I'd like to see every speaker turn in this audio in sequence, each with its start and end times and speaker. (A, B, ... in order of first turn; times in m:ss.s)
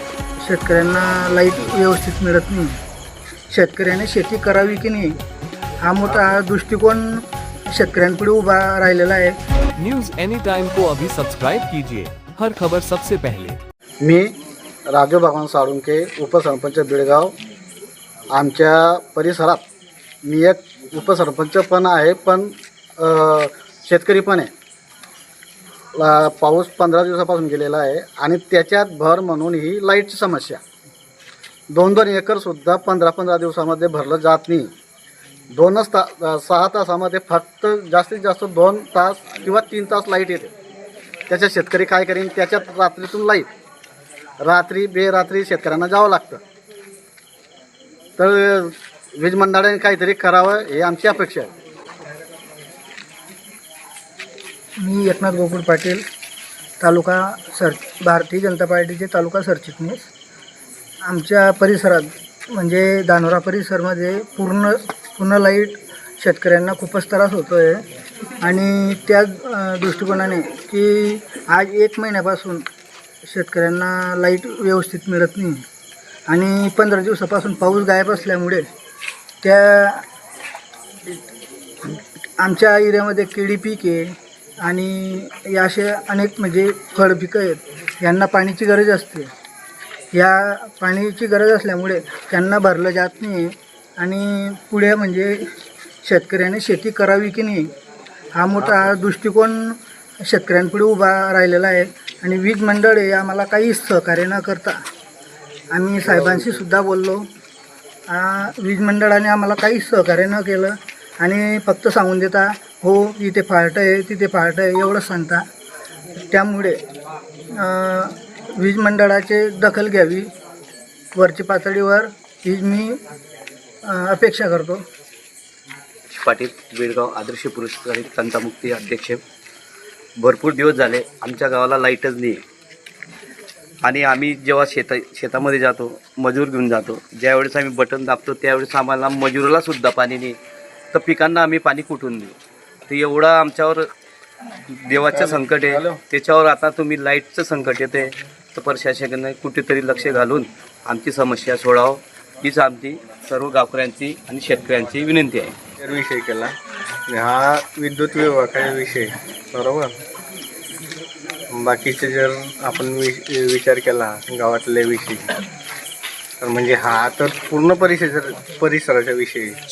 0:00.4-0:02.8 A
0:03.5-0:05.2 A
0:05.8-0:09.4 A
0:09.8-0:13.6 B
0:14.0-0:14.3 C
0:14.9-0:17.3 C
0:18.3-0:19.6 C
0:20.2-0:24.5 C
0:26.0-0:30.6 C
0:31.7-0:34.7 C
0:35.5-0:40.5 C
0:41.3-0:43.5 C
0:44.4-0:46.4 C
0:48.2-0:51.5 C
0:54.8-0:56.0 A
0:56.8-1:00.1 A
1:01.0-1:07.9 A
1:08.4-1:12.6 A
1:13.2-1:15.6 A
1:16.3-1:18.6 A
1:19.4-1:20.0 A
1:22.4-1:29.3 A
1:30.1-1:35.4 A
1:36.0-1:37.7 A
1:38.3-1:44.8 A
1:38.6-1:38.9 C
1:45.7-1:47.2 A
1:46.0-1:46.6 C
1:48.1-1:55.4 A
1:56.3-1:56.8 A
1:57.5-2:00.3 A
2:01.1-2:03.0 A
2:03.8-2:04.8 A
2:06.1-2:09.2 D
2:10.2-2:12.4 D
2:13.8-2:20.3 D
2:20.9-2:22.3 D
2:22.9-2:23.8 D
2:24.8-2:35.5 D
2:25.1-2:26.0 E
2:35.8-2:36.5 E
2:37.1-2:40.0 E
2:41.5-2:45.3 E
2:46.4-2:49.6 E